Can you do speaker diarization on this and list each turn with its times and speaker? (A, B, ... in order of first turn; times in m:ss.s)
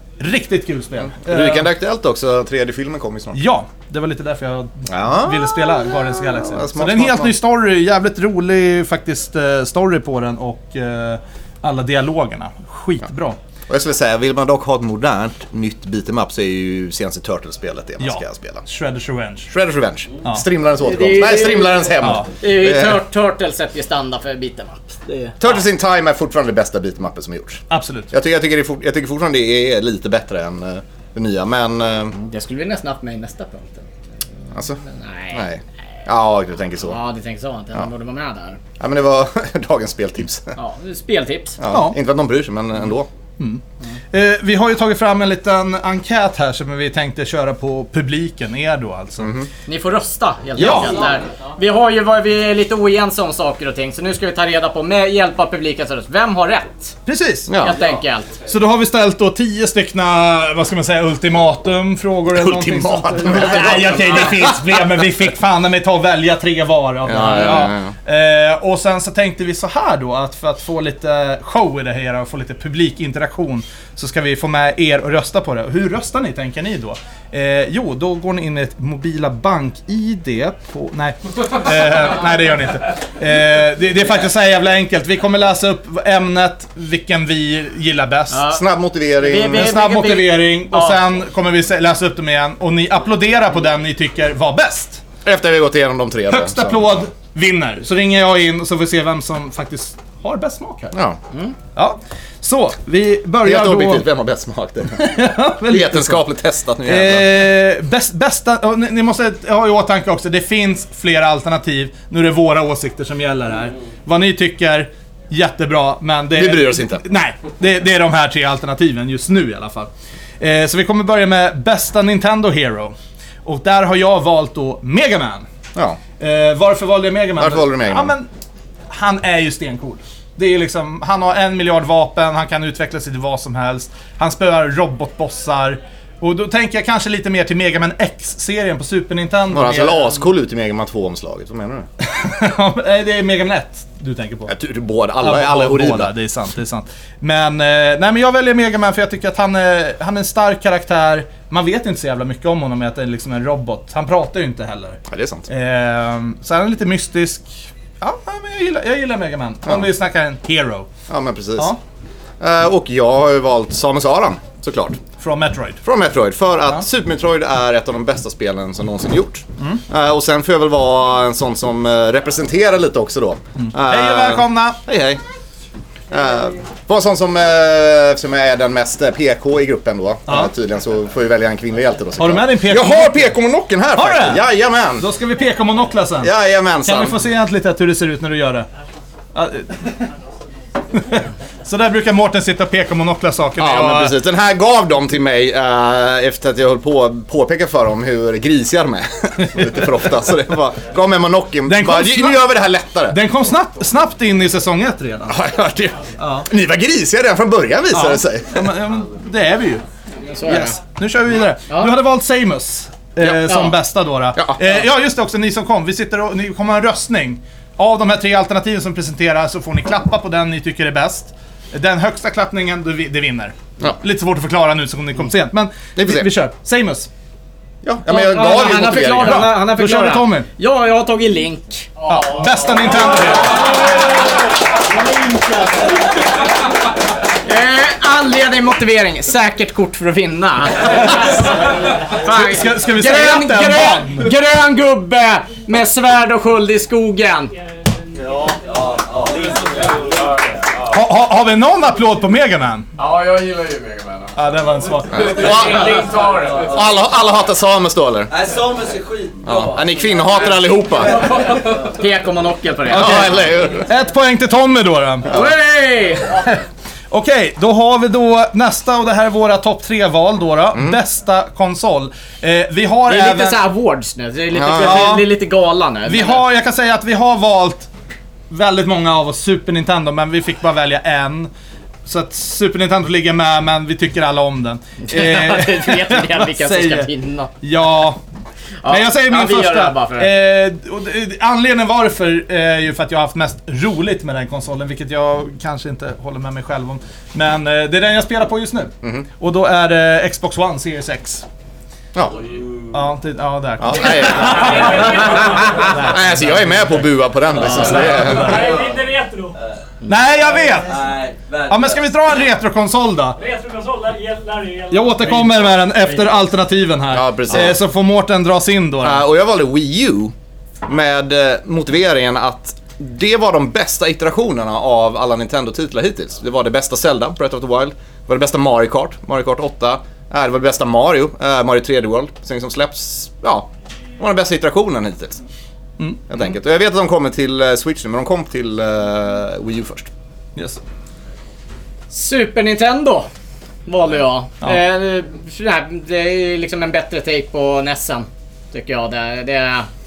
0:00.2-0:01.7 A
0:01.2-0:03.4 B
0:03.3-0:13.4 A
0:04.9-0:05.6 B
0:06.4-0:07.3 B
0:13.7-0:18.6 B
0:18.0-0:19.5 A
0:19.5-0:23.0 B
0:20.8-0:25.4 C
0:22.0-0:22.3 A
0:25.4-0:32.2 B
0:27.7-0:28.1 A
0:32.2-0:33.9 C
0:34.5-0:34.8 B
0:34.9-0:35.5 C
0:35.3-0:37.0 B
0:36.9-0:38.6 C
0:38.8-0:40.5 B
0:40.6-0:41.6 C
0:41.6-0:43.1 B
0:41.7-0:42.0 A
0:43.4-0:49.3 A
0:49.2-0:49.5 B
0:49.7-0:57.0 C
0:50.6-0:51.0 A
0:57.1-0:57.5 A
0:57.5-0:57.8 B
0:57.6-0:58.3 C
0:58.5-1:28.4 A
1:02.3-1:04.8 B
1:03.8-1:04.2 C
1:07.0-1:07.9 B
1:28.3-1:28.6 C
1:28.5-1:29.8 B
1:29.2-1:31.0 C
1:29.4-1:35.0 A
1:35.2-1:37.0 B
1:36.3-1:40.9 A
1:40.9-1:41.2 B
1:41.8-1:44.1 A
1:43.4-1:47.4 B
1:45.0-1:46.2 A
1:46.8-2:02.9 A
1:56.3-1:57.0 B
2:03.4-2:05.5 A
2:05.8-2:06.0 B
2:06.2-2:08.3 A
2:07.4-2:08.1 B
2:08.9-2:20.2 A
2:19.5-2:21.9 B
2:22.0-2:24.5 A
2:24.5-2:26.1 B
2:25.2-2:40.9 A
2:35.1-2:35.5 B
2:41.1-2:41.7 B
2:42.4-2:45.0 B
2:45.2-2:45.8 A
2:45.8-2:55.2 B
2:53.6-2:54.8 A
2:56.1-3:05.1 B
3:00.3-3:00.5 A
3:02.2-3:03.4 A
3:04.0-3:04.4 A
3:05.0-3:06.3 A
3:06.2-3:07.2 B
3:06.8-3:08.7 A
3:09.4-3:10.0 A
3:11.0-3:14.2 A
3:13.6-3:23.2 B
3:19.4-3:19.9 A
3:21.7-3:22.5 A
3:23.1-3:25.4 A
3:25.3-3:28.8 B
3:26.2-3:26.5 A
3:27.9-3:29.8 A
3:30.3-3:30.8 C
3:30.5-3:47.1 A
3:33.5-3:33.7 C
3:46.0-3:46.3 B
3:47.8-3:49.5 B
3:48.1-3:52.4 C
3:48.4-3:50.5 A
3:52.1-3:53.8 A
3:57.4-4:01.5 C
4:02.1-4:07.5 C
4:02.2-4:04.3 A
4:08.6-4:10.0 D
4:10.0-4:10.5 E
4:10.9-4:12.9 A
4:13.0-4:14.4 E
4:14.4-4:15.6 A
4:15.1-4:16.9 E
4:15.1-4:15.9 B
4:16.7-4:18.3 B
4:18.3-4:20.5 D
4:19.4-4:21.3 B
4:21.8-4:23.4 C
4:22.9-4:25.4 A
4:22.9-4:23.9 B
4:25.3-4:26.4 C
4:27.1-4:33.6 A
4:30.7-4:31.0 B
4:33.1-4:36.4 C
4:34.5-4:35.2 B
4:34.7-4:35.3 A
4:36.1-4:37.9 A
4:38.5-4:41.5 A
4:42.1-4:47.1 A
4:45.1-4:47.5 C
4:47.6-4:48.2 A
4:48.8-4:50.3 C
4:48.9-5:01.4 A
4:59.0-4:59.3 B
5:02.4-5:02.9 D
5:02.9-5:06.8 A
5:03.8-5:05.2 B
5:04.6-5:05.9 F
5:06.0-5:08.7 B
5:07.8-5:09.6 F
5:08.5-5:08.9 D
5:10.0-5:11.0 A
5:10.8-5:12.0 D
5:11.7-5:13.4 A
5:13.4-5:15.4 F
5:14.9-5:19.2 A
5:17.1-5:17.8 B
5:19.0-5:20.3 B
5:20.9-5:35.4 B
5:36.0-5:36.3 A
5:36.3-5:40.1 B
5:42.1-5:43.3 C
5:43.9-5:49.9 C